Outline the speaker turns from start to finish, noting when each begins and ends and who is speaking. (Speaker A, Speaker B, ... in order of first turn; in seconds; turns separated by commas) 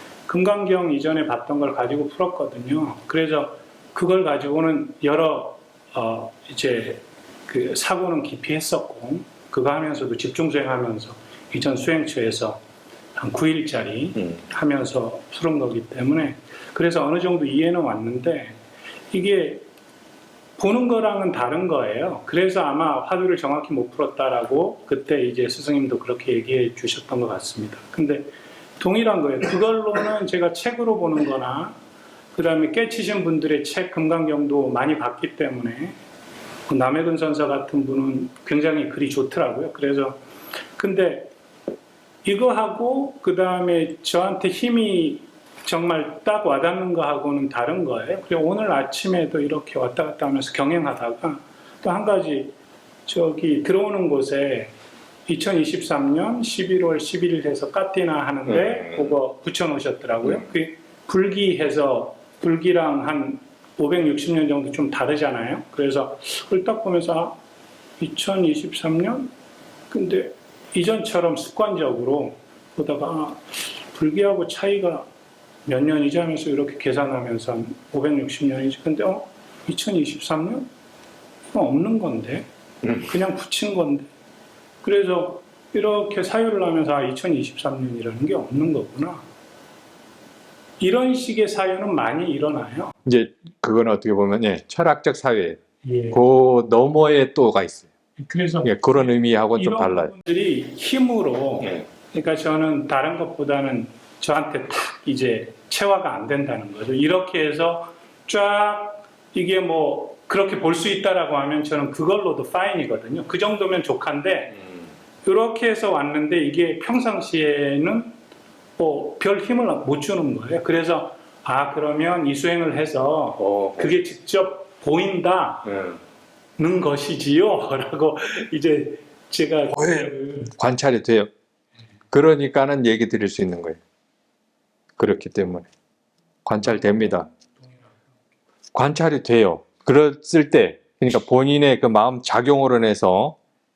Speaker A: 0.3-12.6, Speaker A: 13.2-18.6, Speaker A: 19.1-19.6, Speaker A: 20.6-31.8, Speaker A: 32.3-36.0, Speaker A: 36.7-40.2, Speaker A: 40.8-41.3, Speaker A: 42.2-52.5, Speaker A: 53.0-54.7, Speaker A: 55.3-67.4, Speaker B: 58.5-59.1, Speaker A: 68.0-69.3, Speaker A: 69.9-75.1, Speaker A: 75.7-80.7, Speaker A: 81.5-84.1, Speaker A: 84.8-89.2, Speaker A: 90.8-93.0, Speaker B: 93.0-95.6, Speaker A: 95.8-96.2, Speaker B: 96.1-97.9, Speaker A: 98.2-114.6, Speaker B: 98.6-100.1, Speaker A: 115.2-118.1, Speaker A: 118.8-125.8, Speaker B: 123.4-123.9, Speaker B: 125.7-126.0, Speaker A: 126.6-130.5, Speaker B: 129.7-131.3, Speaker B: 132.1-133.8, Speaker B: 135.0-135.7, Speaker B: 136.4-137.3, Speaker B: 138.7-143.4